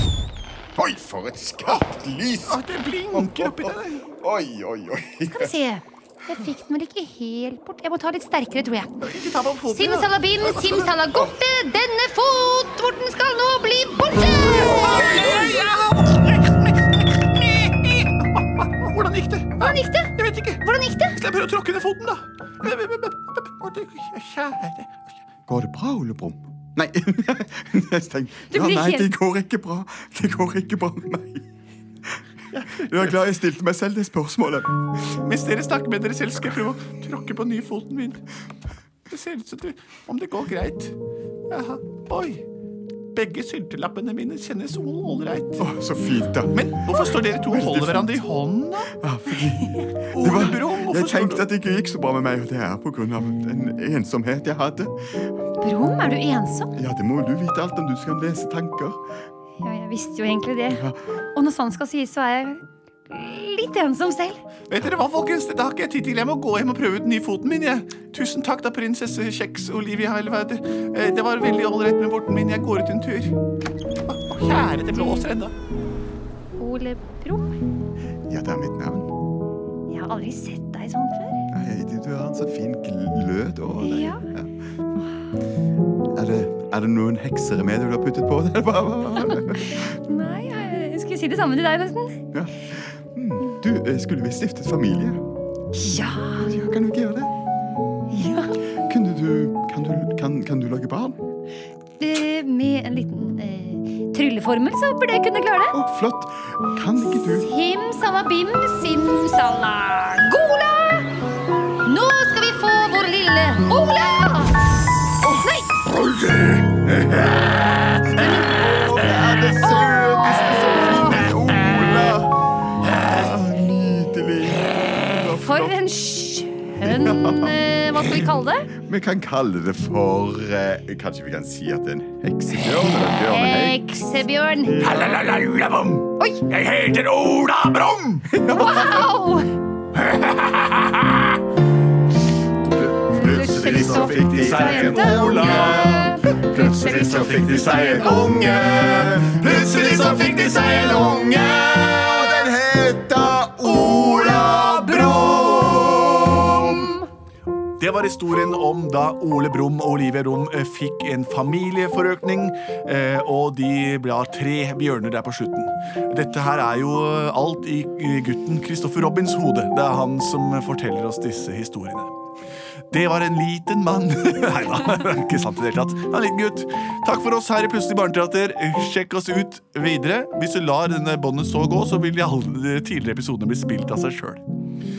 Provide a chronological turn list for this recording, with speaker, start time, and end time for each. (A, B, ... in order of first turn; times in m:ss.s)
0:00.8-0:02.6 A
0:02.5-0:04.1 B
0:03.1-0:05.6 A
0:05.3-0:09.0 C
0:09.0-0:11.0 B
0:09.7-0:15.6 C
0:11.1-0:11.4 A
0:14.3-0:25.1 B
0:14.9-0:15.3 A
0:19.6-0:21.2 C
0:25.5-0:31.5 A
0:28.5-0:29.1 C
0:32.5-0:33.2 B
0:32.8-0:34.8 A
0:35.1-0:38.2 B
0:39.1-0:41.0 B
0:41.5-0:42.4 B
0:43.1-0:45.7 B
0:45.6-0:48.2 A
0:46.5-0:48.9 B
0:49.0-0:55.2 A
0:50.1-0:51.5 B
0:55.6-0:56.7 C
0:56.8-0:59.0 A
0:59.6-1:04.4 C
1:00.7-1:01.0 A
1:04.7-1:13.4 B
1:14.1-1:15.5 B
1:16.6-1:17.6 C
1:18.3-1:19.1 A
1:19.9-1:21.5 C
1:21.5-1:24.5 A
1:23.8-1:24.2 C
1:26.1-1:30.0 A
1:29.3-1:32.2 C
1:32.3-1:35.2 A
1:35.7-1:36.5 C
1:35.9-1:37.3 A
1:38.1-1:38.6 C
1:38.8-1:41.2 A
1:42.0-1:45.8 C
1:45.7-1:47.5 A
1:47.3-1:51.2 C
1:51.8-1:54.6 C
1:55.2-2:05.8 A
1:55.4-1:55.8 C
1:58.1-1:58.7 C
1:59.6-2:01.2 C
2:05.3-2:08.7 C
2:06.8-2:08.1 A
2:08.7-2:13.9 A
2:13.3-2:15.1 C
2:14.6-2:15.2 A
2:14.8-2:18.4 B
2:16.2-2:16.4 C
2:18.3-2:19.1 A
2:18.5-2:19.5 C
2:20.0-2:21.3 B
2:22.7-2:36.9 A
2:23.1-2:28.1 C
2:23.1-2:31.9 B
2:33.8-2:35.0 B
2:34.5-2:37.1 C
2:37.8-2:52.1 B
2:52.9-3:04.4 B